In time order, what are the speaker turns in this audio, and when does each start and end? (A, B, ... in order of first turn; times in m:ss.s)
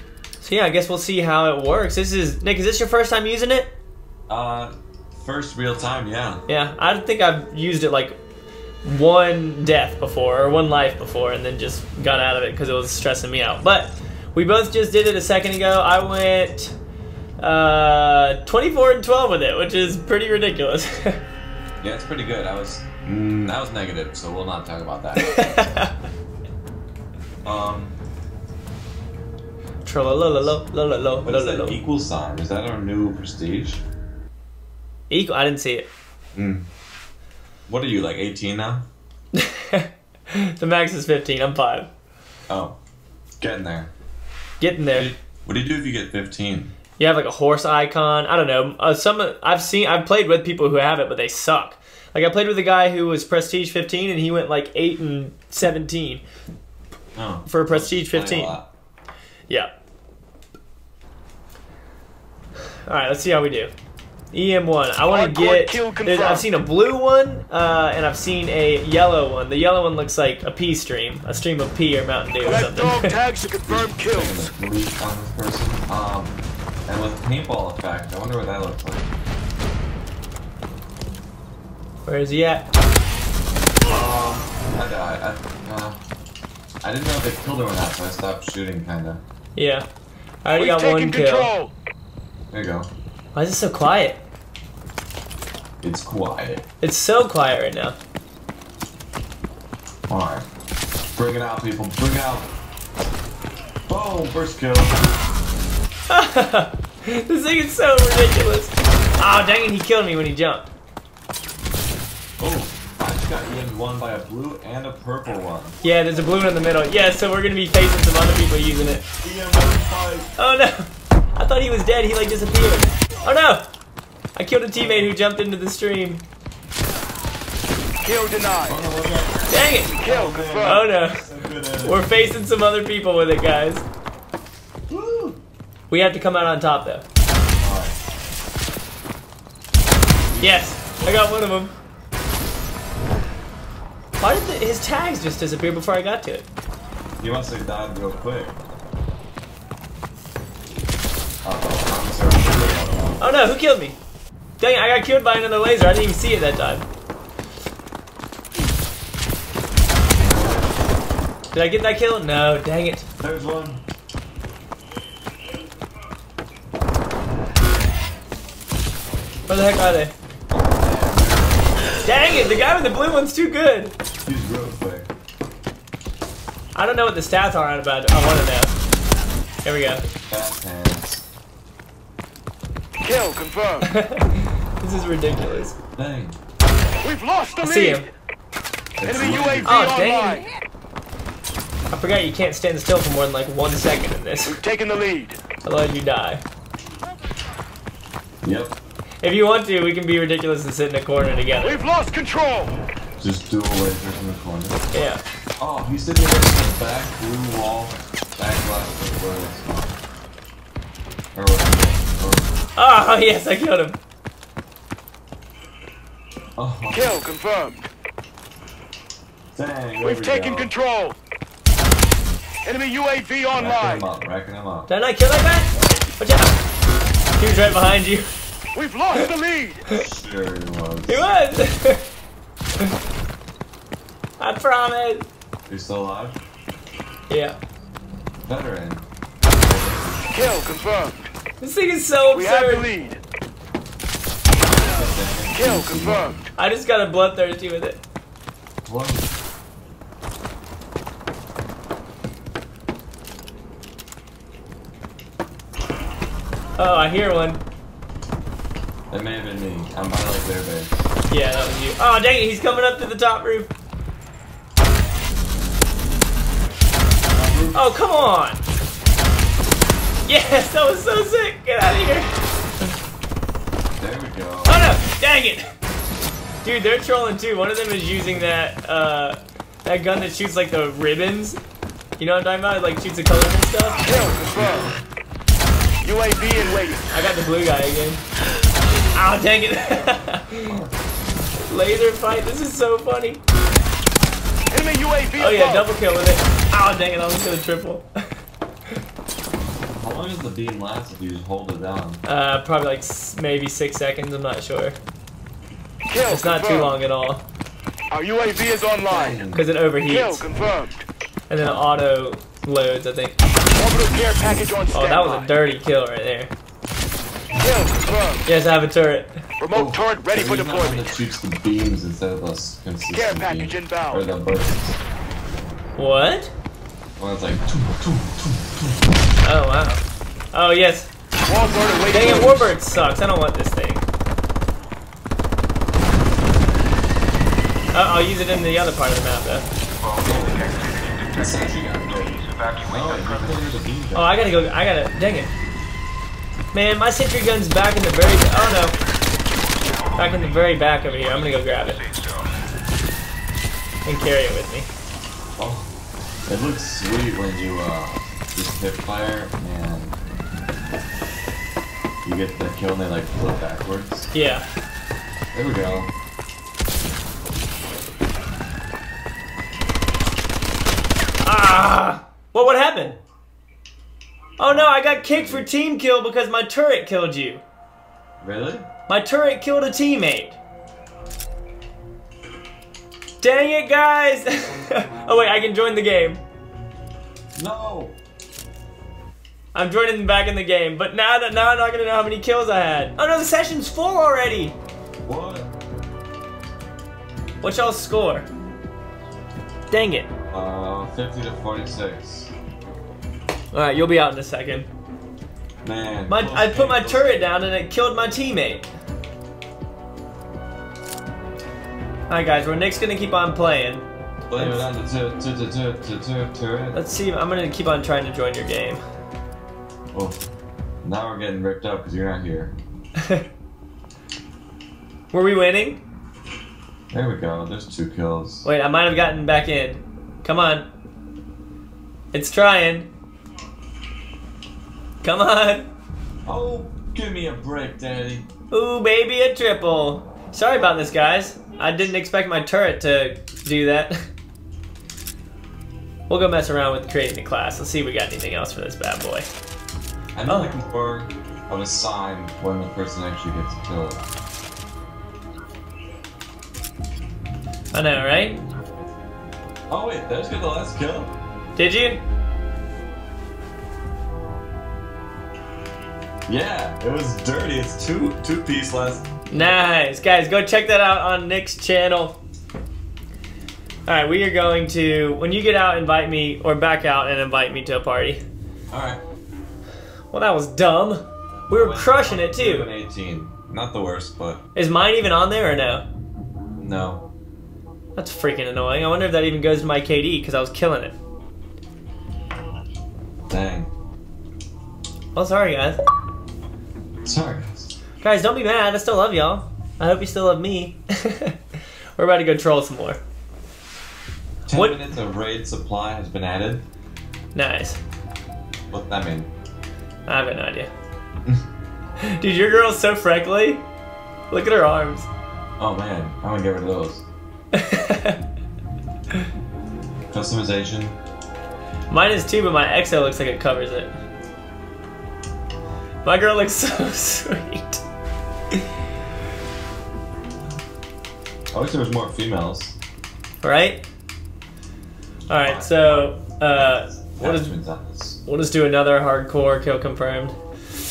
0:00.4-0:03.7 A
0:04.3-0:06.4 B
0:06.5-0:08.2 A
0:08.8-0:16.7 A
0:17.4-0:21.2 A
0:21.8-0:25.5 B
0:25.2-0:25.9 A
0:27.4-0:27.9 B
0:29.8-0:31.8 A
0:31.2-0:33.8 B
0:35.1-0:35.9 A
0:36.3-0:36.7 B
0:37.7-0:38.8 B
0:39.3-0:41.9 A
0:42.5-0:42.8 B
0:43.4-0:43.9 B
0:44.6-0:45.1 A
0:45.0-0:46.7 B
0:47.0-0:56.2 A
0:57.1-0:58.7 B
0:57.4-0:58.6 A
1:02.8-1:03.7 A
1:04.3-1:13.2 A
1:05.1-1:06.5 C
1:12.4-1:14.4 C
1:13.7-1:19.1 B
1:22.0-1:22.6 A
1:23.8-1:26.0 B
1:26.8-1:29.2 B
1:29.6-1:29.8 A
1:30.4-1:31.5 A
1:30.5-1:31.7 C
1:32.5-1:32.9 B
1:33.3-1:34.2 A
1:35.8-1:36.6 B
1:36.8-1:38.0 A
1:40.1-1:40.5 B
1:41.1-1:42.5 B
1:43.9-1:45.0 B
1:46.1-1:50.7 A
1:52.4-1:55.8 B
1:55.8-1:59.0 A
1:59.2-2:00.3 B
2:00.4-2:03.6 A
2:04.4-2:06.2 A
2:04.8-2:05.1 B
2:08.0-2:08.8 C
2:08.6-2:12.1 B
2:09.5-2:10.0 A
2:10.0-2:10.8 C
2:10.6-2:11.2 A
2:11.8-2:13.8 A
2:14.9-2:15.4 B
2:15.9-2:17.0 A
2:17.6-2:18.0 B
2:20.3-2:21.3 B
2:20.4-2:21.7 A
2:24.2-2:26.4 A
2:27.2-2:28.6 B
2:31.4-2:33.4 B
2:33.2-2:34.0 A
2:34.6-2:36.8 A
2:40.2-2:40.8 B
2:41.5-2:43.0 A
2:43.2-2:43.8 B
2:49.5-2:50.1 A
2:50.5-2:52.0 B
2:52.0-2:54.0 A
2:54.2-2:55.1 B
2:56.7-2:58.7 A
2:59.6-3:00.0 A
3:00.3-3:01.2 B
3:03.0-3:03.9 C
3:03.8-3:05.8 A
3:06.0-3:06.4 B
3:07.0-3:08.1 C
3:07.6-3:08.1 A
3:09.0-3:09.9 B
3:09.0-3:10.5 C
3:09.6-3:10.4 A
3:11.9-3:14.6 A
3:14.4-3:15.4 C
3:15.6-3:16.4 A
3:18.4-3:18.8 B
3:19.2-3:21.8 A
3:21.6-3:22.8 C
3:23.2-3:24.8 B
3:24.9-3:25.2 A
3:25.6-3:29.9 B
3:31.3-3:32.5 B
3:32.8-3:34.0 A
3:36.6-3:37.1 B
3:36.9-3:37.9 C
3:39.5-3:40.7 B
3:40.0-3:41.2 C
3:42.6-3:44.0 C
3:43.5-3:44.9 B
3:44.9-3:46.6 A
3:47.4-3:48.3 A
3:48.7-3:49.8 C
3:49.9-3:51.3 B
3:51.1-3:52.0 A
3:54.4-3:55.2 A
3:55.7-3:56.4 B
3:57.3-3:57.6 A
3:58.4-4:00.3 B
4:00.3-4:01.3 C
4:01.6-4:02.9 A
4:02.3-4:03.2 C
4:04.6-4:06.4 B
4:05.6-4:06.3 C
4:06.6-4:08.0 A
4:08.8-4:09.3 B
4:16.8-4:17.6 A
4:19.1-4:21.1 B
4:21.3-4:23.7 A
4:27.3-4:27.8 B
4:27.7-4:28.6 A
4:30.2-4:32.3 A
4:34.0-4:35.0 B
4:34.6-4:35.7 A
4:36.6-4:41.6 A
4:42.2-4:44.1 A
4:44.0-4:44.9 C
4:44.1-4:45.0 B
4:46.0-4:47.1 C
4:47.1-4:48.2 A
4:49.1-4:50.8 A
4:50.6-4:51.4 B
4:51.6-4:53.4 A
4:54.7-4:55.9 C
4:55.4-4:58.1 A
5:00.0-5:02.2 B
5:02.2-5:05.0 A
5:06.1-5:06.9 C
5:06.2-5:07.4 A
5:08.1-5:09.4 C
5:09.1-5:09.7 B
5:09.5-5:10.4 A
5:10.0-5:11.0 C
5:11.5-5:13.4 A
5:11.6-5:11.8 B
5:13.7-5:15.5 C
5:14.9-5:16.5 A
5:17.6-5:18.4 C
5:18.4-5:19.4 A
5:19.6-5:21.1 C
5:19.7-5:25.0 B
5:23.1-5:24.2 C
5:26.0-5:26.5 A
5:27.2-5:29.0 B
5:29.4-5:30.0 A
5:30.5-5:31.1 A
5:31.5-5:32.7 C
5:32.1-5:34.0 A
5:37.9-5:39.7 A
5:40.0-5:43.6 C
5:40.2-5:40.7 B
5:41.3-5:44.4 B
5:44.1-5:45.5 A
5:46.7-5:48.9 A
5:49.8-5:50.2 C
5:50.2-5:52.0 A
5:51.2-5:52.5 C
5:54.0-5:54.9 A
5:55.6-5:55.9 B
5:56.5-6:00.2 B
6:02.2-6:04.3 B
6:04.3-6:04.6 A
6:05.5-6:06.1 B
6:11.4-6:13.1 A
6:12.9-6:13.2 B
6:14.6-6:17.6 A
6:14.6-6:15.6 B
6:18.4-6:18.9 B
6:19.1-6:20.6 A
6:23.4-6:26.4 A
6:27.6-6:28.2 B
6:29.7-6:34.8 A
6:35.2-6:35.7 B
6:37.6-6:38.5 A
6:39.9-6:40.3 A
6:40.5-6:42.5 B
6:43.7-6:44.9 A
6:45.8-6:47.3 B
6:46.3-6:48.9 A
6:52.3-6:54.9 A
6:54.5-6:57.0 B
6:56.9-6:59.0 A
7:00.1-7:00.4 B
7:01.0-7:02.8 B
7:03.2-7:03.4 A
7:05.3-7:06.0 A
7:07.1-7:08.7 B
7:08.6-7:10.8 A
7:12.3-7:13.1 A
7:15.2-7:15.9 A
7:16.4-7:18.5 B
7:18.7-7:24.1 A
7:26.3-7:29.4 A
7:30.4-7:34.2 B
7:30.5-7:30.8 A
7:37.9-7:38.6 A
7:39.9-7:41.3 B
7:41.8-7:42.2 A
7:46.5-7:49.7 B
7:49.5-7:52.4 A
7:54.1-7:58.4 A
7:58.9-7:59.2 B
8:00.3-8:02.9 A
8:01.7-8:04.6 B
8:04.7-8:06.0 A
8:06.8-8:07.2 B
8:08.2-8:11.1 A
8:13.5-8:13.9 B
8:15.3-8:16.0 A
8:17.2-8:18.0 B
8:18.2-8:21.6 A
8:22.2-8:23.2 A
8:24.6-8:26.8 B
8:24.7-8:25.0 A
8:27.5-8:28.0 A
8:28.9-8:29.5 B
8:30.3-8:30.9 A
8:32.2-8:33.8 A
8:34.5-8:35.3 A
8:35.8-8:37.2 B
8:37.7-8:38.4 A
8:40.3-8:41.2 B
8:42.1-8:44.1 A
8:46.2-8:48.0 A
8:51.7-8:53.0 B
8:53.6-8:54.0 A
8:55.5-8:57.7 A
8:55.6-8:58.4 B
8:58.4-9:00.5 A